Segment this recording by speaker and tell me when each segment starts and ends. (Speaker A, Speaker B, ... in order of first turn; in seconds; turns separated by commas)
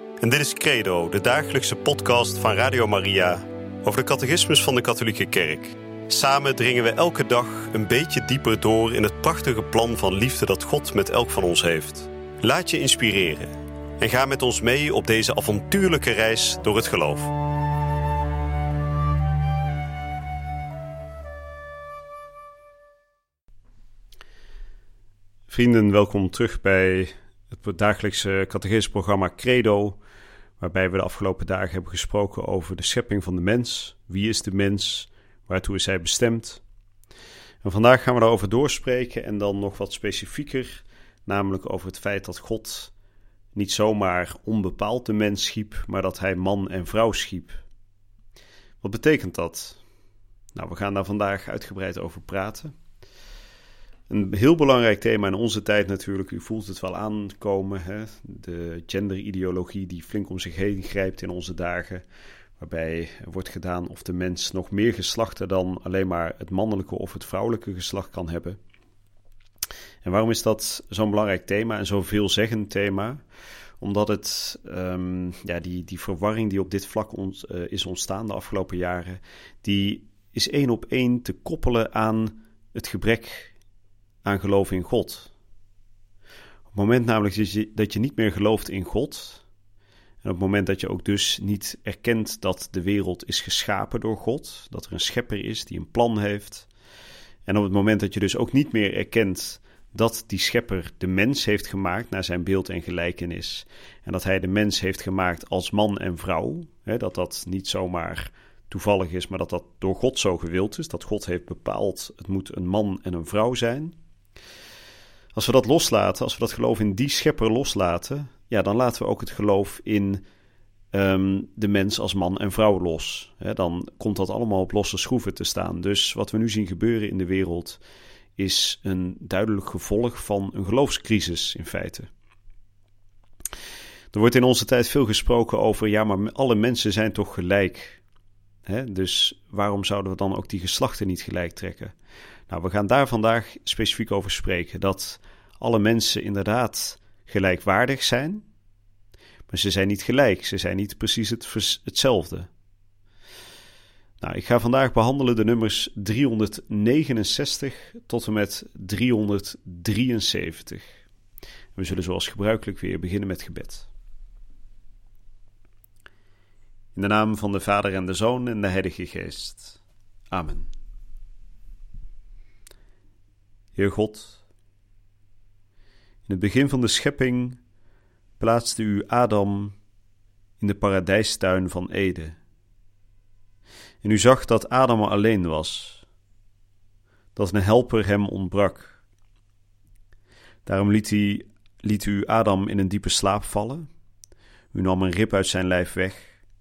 Speaker A: 0.2-17.3, Speaker A: 25.5-30.0, Speaker A: 30.6-36.6, Speaker A: 37.6-42.9, Speaker A: 43.5-47.6, Speaker A: 48.8-49.8, Speaker A: 50.5-52.7, Speaker A: 54.1-62.0, Speaker A: 62.6-68.6, Speaker A: 70.0-73.2, Speaker A: 73.8-83.5, Speaker A: 84.2-85.3, Speaker A: 86.7-89.4, Speaker A: 90.2-96.7, Speaker A: 97.5-114.0, Speaker A: 115.3-120.2, Speaker A: 120.9-127.8, Speaker A: 128.3-132.1, Speaker A: 134.1-138.0, Speaker A: 138.7-141.9, Speaker A: 142.5-148.4, Speaker A: 149.5-152.5, Speaker A: 154.2-160.9, Speaker A: 161.7-163.9, Speaker A: 166.9-170.7, Speaker A: 173.8-174.4, Speaker A: 176.2-177.6, Speaker A: 178.4-179.8, Speaker A: 180.6-182.3, Speaker A: 184.0-186.0, Speaker A: 187.3-189.0, Speaker A: 190.6-193.9, Speaker A: 194.7-196.4